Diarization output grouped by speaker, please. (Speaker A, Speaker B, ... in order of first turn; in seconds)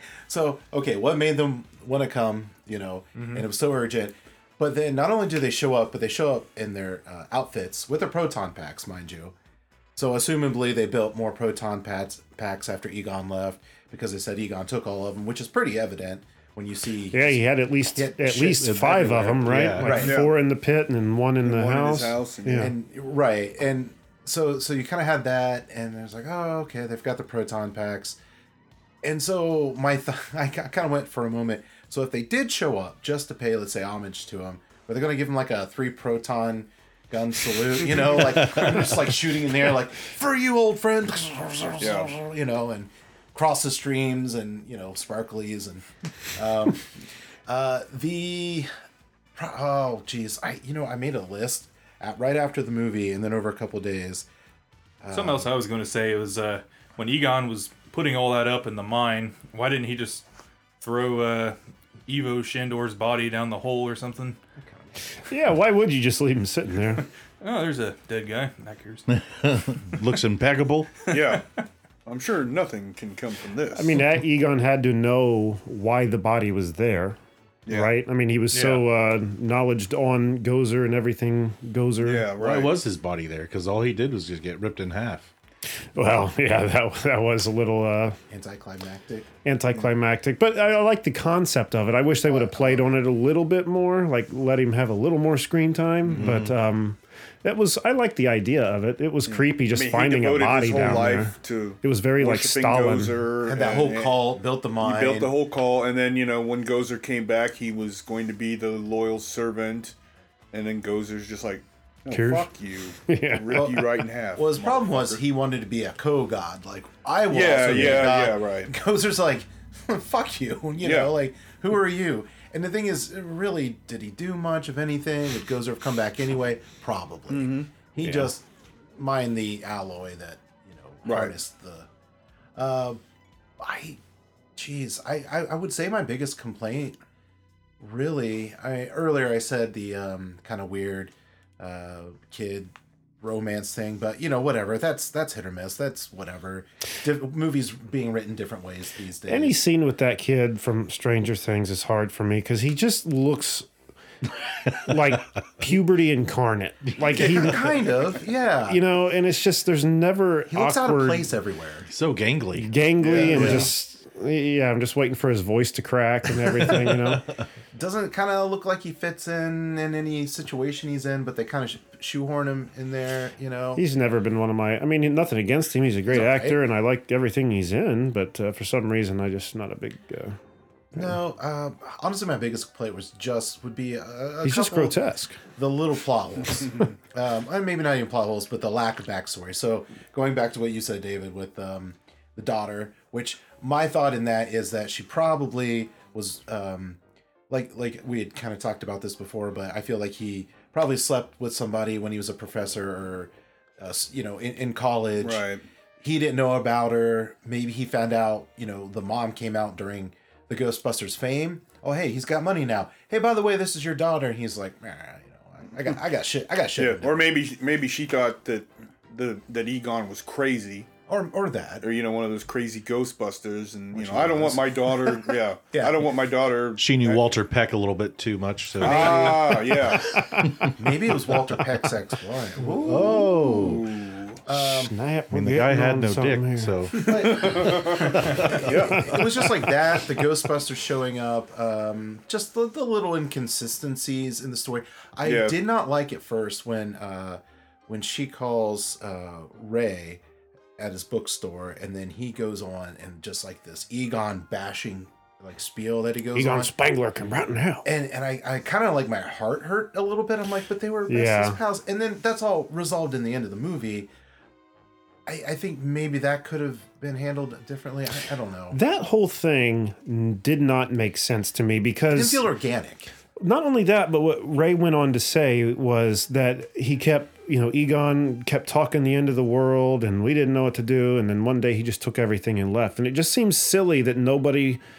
Speaker A: 0.3-9.3, 9.9-20.2, 22.6-28.2, 29.0-46.9, 47.5-48.7, 49.4-54.2, 55.0-55.5, 88.3-89.3, 92.2-93.0, 103.4-105.3, 113.5-113.8, 114.3-128.4, 129.0-131.9, 132.5-133.0, 133.6-134.0, 134.6-137.0, 137.8-149.6, 157.1-158.8, 160.5-161.9, 163.0-163.7, 167.7-173.8, 176.1-176.6, 180.9-197.0, 197.5-205.4, 206.0-217.3, 221.1-221.9, 223.9-226.1, 228.8-229.7, 230.8-233.3, 234.4-234.9, 237.0-250.2, 250.8-256.7, 257.8-264.1, 265.2-268.8, 272.1-273.1
Speaker B: 17.1-22.7, 65.3-67.0, 73.7-82.3, 86.0-88.2, 89.4-103.2, 112.1-112.5, 113.1-113.9, 128.0-128.3, 149.3-153.7, 154.8-157.9, 158.7-161.3, 162.5-167.3, 173.8-180.4, 184.4-185.4, 230.4-230.7, 234.5-237.0, 239.1-239.4, 256.4-257.9, 261.1-261.6, 268.7-272.4, 273.4-284.8
Speaker C: 18.5-20.0, 38.2-38.9, 69.1-71.1, 82.4-85.3, 96.0-96.5, 154.7-154.9, 161.9-162.7, 163.3-163.7, 166.5-167.4, 226.8-229.7, 230.4-230.8, 232.8-233.9, 235.3-237.1
Speaker D: 19.9-20.3, 21.4-22.7, 41.8-42.2, 71.1-71.4, 72.0-73.9, 77.7-77.9, 82.0-82.8, 99.3-104.3, 104.8-109.9, 110.5-115.2, 117.3-118.7, 120.8-121.2, 127.3-127.7, 131.0-131.3, 163.2-163.5, 205.2-205.6, 216.8-220.9, 221.8-227.2, 228.8-230.1, 233.6-234.4, 237.3-239.1, 245.2-245.6
Speaker E: 55.1-60.2, 60.8-61.5, 62.1-64.4, 67.4-69.0, 78.5-78.8